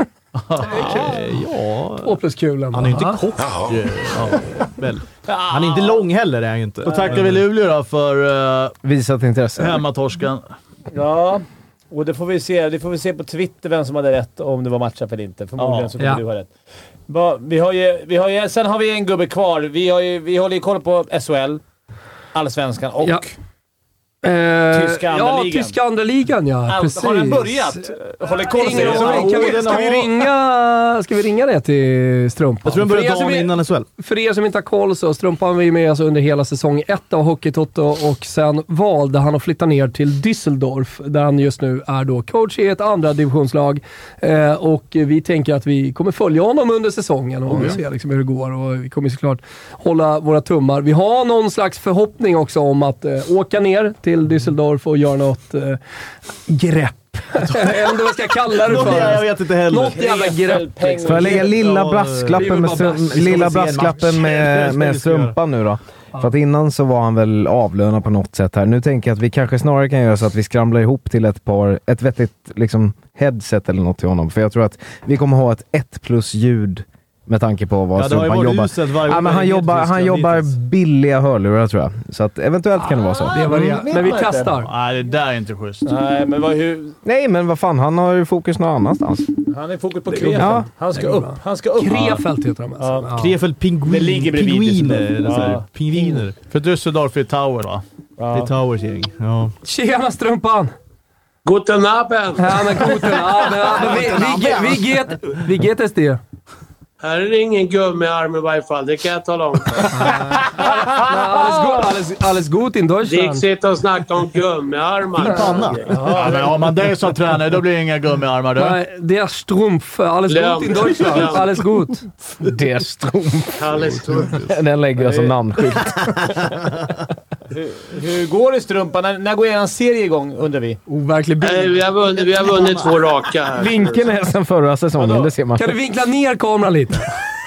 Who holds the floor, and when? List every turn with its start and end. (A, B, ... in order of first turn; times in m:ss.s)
0:00.4-0:00.9 A
0:00.6-0:01.2 B
0:00.7-0:02.2 C
0:02.0-0:03.2 B
0:02.7-0:03.8 C
0:03.6-0:04.4 A
0:04.6-0:07.4 C
0:05.2-0:06.1 D
0:06.9-0:07.2 D
0:06.9-0:08.8 A
0:08.8-0:09.8 E
0:09.6-0:10.5 A
0:10.9-0:16.5 D
0:15.6-0:15.9 A
0:17.1-0:21.6 D
0:22.3-0:23.3 D
0:24.2-0:27.9 B
0:24.7-0:25.8 D
0:26.7-0:29.8 D
0:28.5-0:55.8 B
0:28.7-0:30.1 C
0:32.6-0:33.9 C
0:56.5-1:01.5 B
0:57.4-0:57.8 C
0:58.6-1:00.0 C
0:59.9-1:01.6 D
1:01.0-1:23.8 E
1:01.5-1:05.3 C
1:02.4-1:03.4 B
1:18.0-1:20.5 C
1:23.3-1:24.7 B
1:23.4-1:24.5 D
1:24.6-1:25.9 A
1:25.8-1:27.0 D
1:27.0-1:29.3 E
1:29.5-1:32.2 D
1:30.1-1:33.4 B
1:30.4-1:30.7 E
1:32.8-1:33.1 D
1:33.2-1:36.4 C
1:33.8-1:36.2 D
1:36.5-1:37.8 A
1:38.2-1:38.6 D
1:38.3-1:39.5 C
1:39.6-1:40.7 B
1:41.4-1:43.2 F
1:42.4-1:46.2 B
1:43.8-1:44.8 C
1:47.0-1:50.7 F
1:49.9-1:53.4 B
1:53.1-1:56.0 F
1:55.2-1:56.0 C
1:55.9-1:56.7 D
1:56.1-1:58.8 A
1:58.6-2:02.0 B
2:00.3-2:01.5 F
2:02.4-2:06.3 E
2:03.6-2:04.4 F
2:03.8-2:04.6 C
2:05.0-2:05.3 D
2:07.5-2:10.8 D
2:10.9-2:11.8 B
2:11.4-2:14.1 F
2:12.6-2:12.9 C
2:13.6-2:15.8 E
2:15.6-2:17.1 B